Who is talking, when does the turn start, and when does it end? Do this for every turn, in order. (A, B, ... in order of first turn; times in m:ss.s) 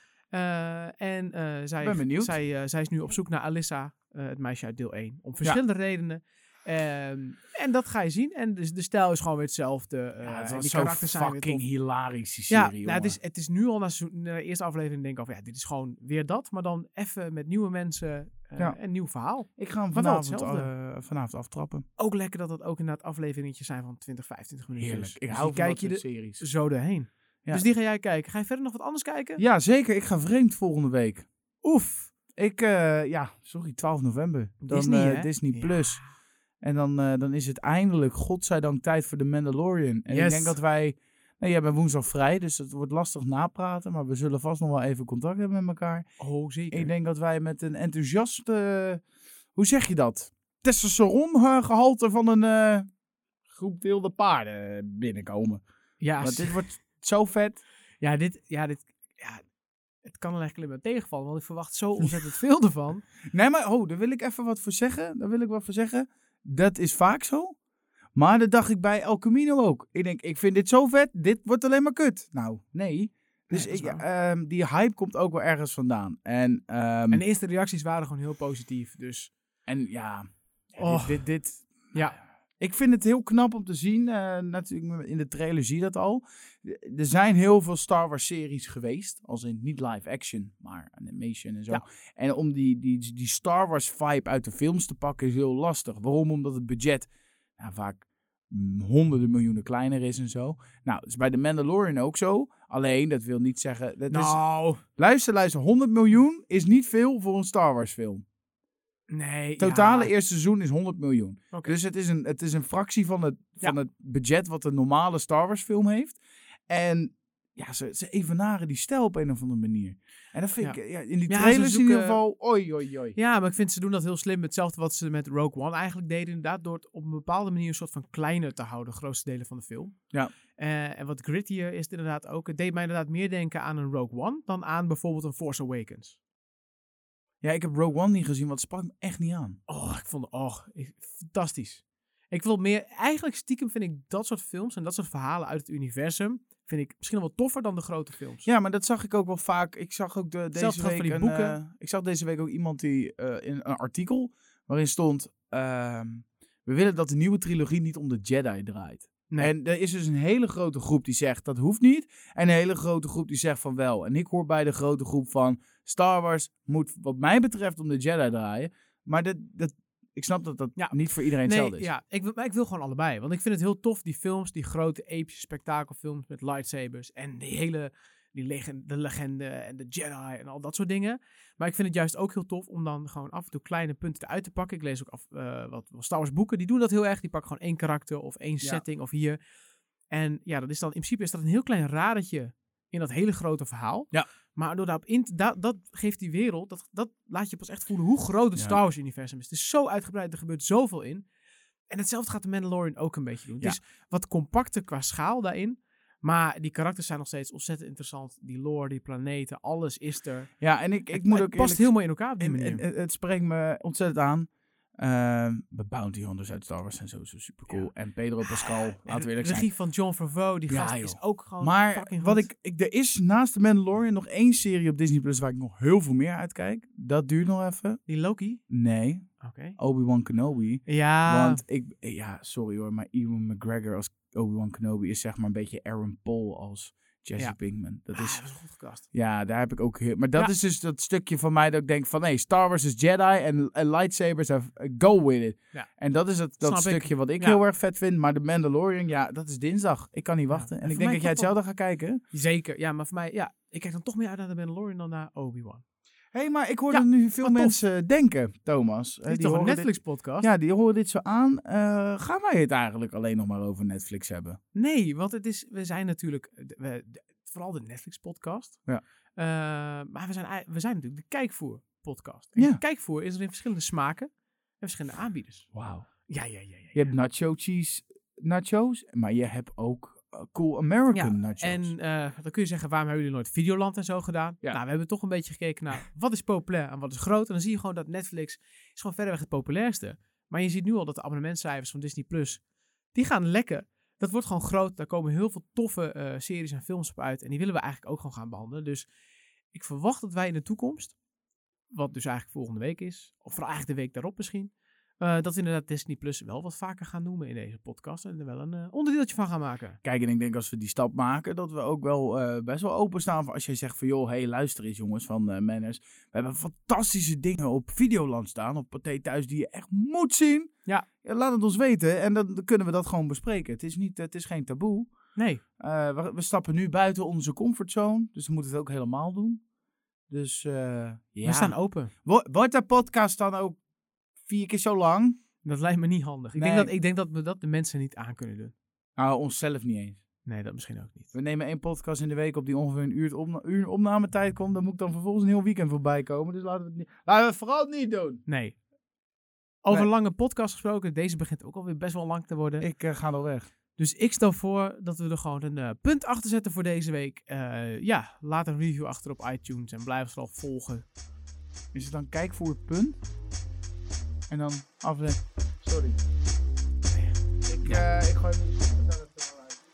0:00.3-0:11.6 A
0:01.8-0:02.4 B
0:10.2-0:13.2 B
0:12.5-0:20.7 A
0:19.6-0:21.8 B
0:22.0-0:29.4 A
0:24.8-0:26.4 B
0:29.4-0:31.3 B
0:31.6-0:32.1 A
0:32.4-0:36.0 B
0:34.6-0:36.0 A
0:36.6-0:46.1 B
0:40.1-0:40.6 A
0:46.2-0:46.9 A
0:46.7-0:49.0 B
0:49.6-0:52.9 B
0:53.5-0:55.6 B
0:56.0-0:56.6 A
0:56.2-0:57.6 B
0:58.0-0:59.4 A
1:00.0-1:03.1 A
1:03.3-1:07.6 B
1:08.2-1:17.2 B
1:13.5-1:14.0 A
1:17.1-1:19.3 A
1:19.7-1:44.4 B
1:20.8-1:21.3 A
1:44.1-1:44.8 A
1:45.0-1:48.2 B
1:49.1-1:50.1 A
1:49.6-2:03.2 B
2:00.6-2:02.2 A
2:03.2-2:10.0 A
2:10.6-2:16.2 A
2:17.4-2:19.6 B
2:19.7-2:28.5 A
2:28.4-2:51.9 B
2:30.5-2:31.6 A
2:50.8-3:09.4 A
3:10.1-3:21.2 A
3:21.9-3:30.5 A
3:30.6-3:39.7 B
3:31.1-3:32.8 A
3:38.4-3:42.5 A
3:40.7-3:48.0 B
3:48.1-3:48.6 A
3:48.7-3:58.4 B
3:49.4-3:49.8 A
3:50.9-3:51.6 A
3:58.1-3:59.1 A
3:59.1-4:12.2 B
4:06.6-4:07.6 A
4:10.5-4:11.5 A
4:12.3-4:15.8 A
4:16.3-4:24.6 B
4:16.9-4:17.8 A
4:19.3-4:20.5 A
4:24.7-4:28.8 A
4:29.4-4:34.3 A
4:34.8-4:35.7 A
4:35.7-4:36.1 B
4:36.3-4:37.1 A
4:36.9-4:41.9 B
4:41.1-4:52.6 A
4:53.1-4:59.1 A
4:59.7-5:01.2 A
5:01.9-5:10.0 A
5:10.0-5:20.7 B
5:21.2-5:25.1 B
5:25.4-5:25.6 A
5:25.8-5:29.6 B
5:30.3-5:33.8 B
5:31.4-5:32.1 A
5:34.4-5:35.4 B
5:35.6-5:38.8 A
5:36.6-5:36.9 B
5:39.2-5:40.2 B
5:40.4-5:41.3 A
5:41.3-5:48.4 B
5:48.5-5:48.8 A
5:49.8-5:52.9 A
5:52.8-5:53.7 B
5:54.0-6:01.0 A
6:01.9-6:03.2 B
6:04.5-6:06.2 B
6:07.1-6:08.0 A
6:07.7-6:09.8 B